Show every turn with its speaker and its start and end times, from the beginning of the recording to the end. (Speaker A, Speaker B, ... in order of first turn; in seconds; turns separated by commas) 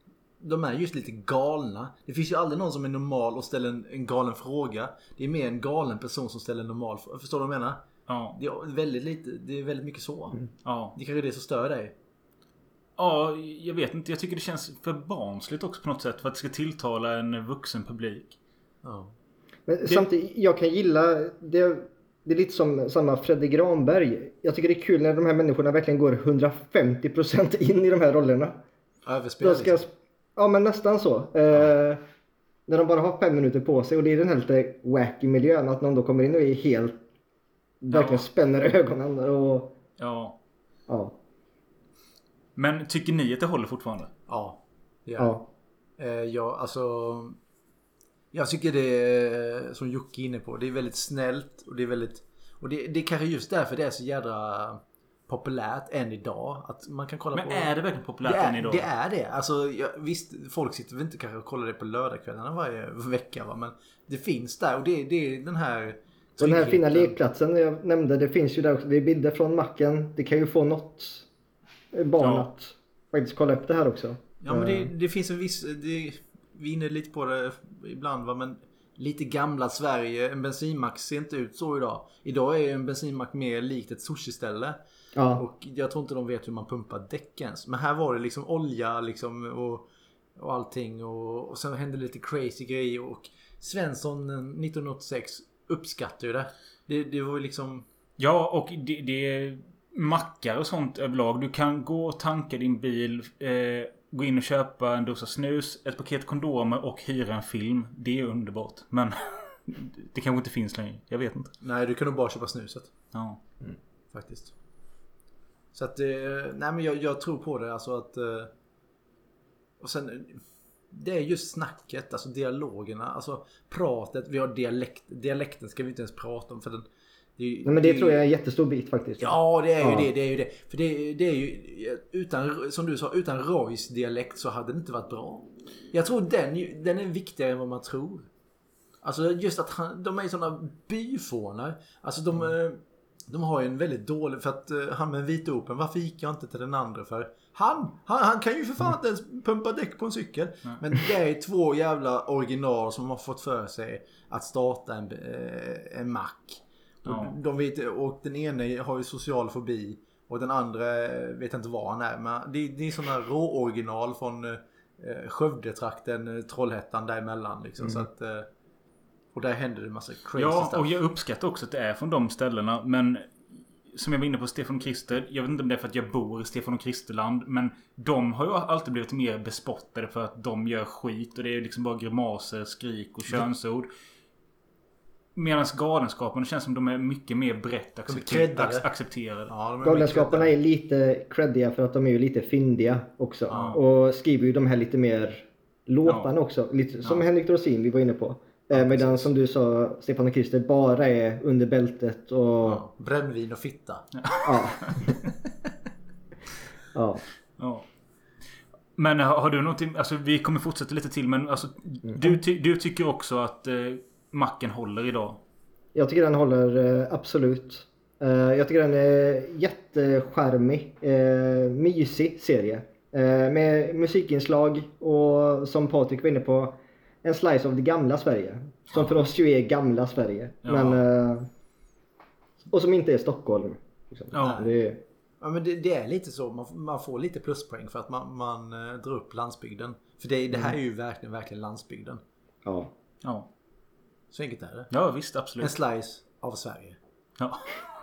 Speaker A: 0.4-7.8, Speaker B: 8.1-8.4, Speaker A: 8.3-10.4, Speaker B: 10.7-11.0, Speaker A: 10.9-11.9, Speaker B: 13.0-18.4, Speaker A: 18.8-19.1, Speaker C: 19.7-28.6, Speaker A: 29.1-29.8, Speaker C: 29.4-32.0, Speaker C: 32.7-37.0, Speaker C: 37.8-39.8, Speaker B: 37.9-38.2, Speaker B: 40.0-40.4, Speaker C: 40.9-41.2, Speaker B: 42.6-44.1, Speaker A: 44.3-45.4, Speaker C: 45.2-45.5, Speaker A: 46.0-47.4, Speaker A: 48.3-57.7, Speaker B: 57.3-58.9, Speaker A: 58.2-67.2, Speaker C: 66.4-71.3, Speaker C: 71.9-74.9, Speaker B: 72.2-72.5, Speaker A: 74.4-84.8, Speaker C: 85.2-85.4, Speaker A: 85.3-89.9, Speaker A: 90.4-97.8, Speaker B: 98.2-111.5, Speaker A: 111.6-112.9, Speaker B: 113.1-113.4, Speaker A: 114.1-114.5, Speaker A: 115.7-118.5, Speaker A: 119.8-126.9, Speaker A: 127.4-128.2, Speaker C: 127.7-130.1, Speaker A: 129.2-138.3, Speaker A: 139.0-168.5, Speaker B: 157.1-157.3, Speaker A: 169.3-171.0, Speaker B: 170.4-173.3, Speaker B: 173.9-183.9, Speaker B: 185.3-189.5, Speaker A: 188.1-188.9, Speaker A: 189.5-190.5, Speaker C: 189.8-202.8, Speaker A: 193.5-193.8, Speaker B: 196.1-196.3, Speaker A: 198.7-199.3, Speaker A: 202.7-204.1, Speaker B: 204.2-205.1, Speaker C: 204.4-205.2, Speaker C: 206.9-207.2, Speaker B: 207.6-207.9, Speaker B: 209.0-215.4, Speaker C: 212.1-212.4, Speaker C: 215.9-231.5, Speaker B: 230.7-231.0, Speaker C: 232.7-235.0, Speaker B: 234.3-234.7, Speaker A: 234.4-234.7, Speaker A: 235.4-242.2, Speaker C: 242.7-242.9, Speaker B: 243.2-243.5, Speaker A: 244.3-244.9, Speaker B: 244.9-245.7, Speaker A: 245.6-247.0, Speaker B: 247.4-247.7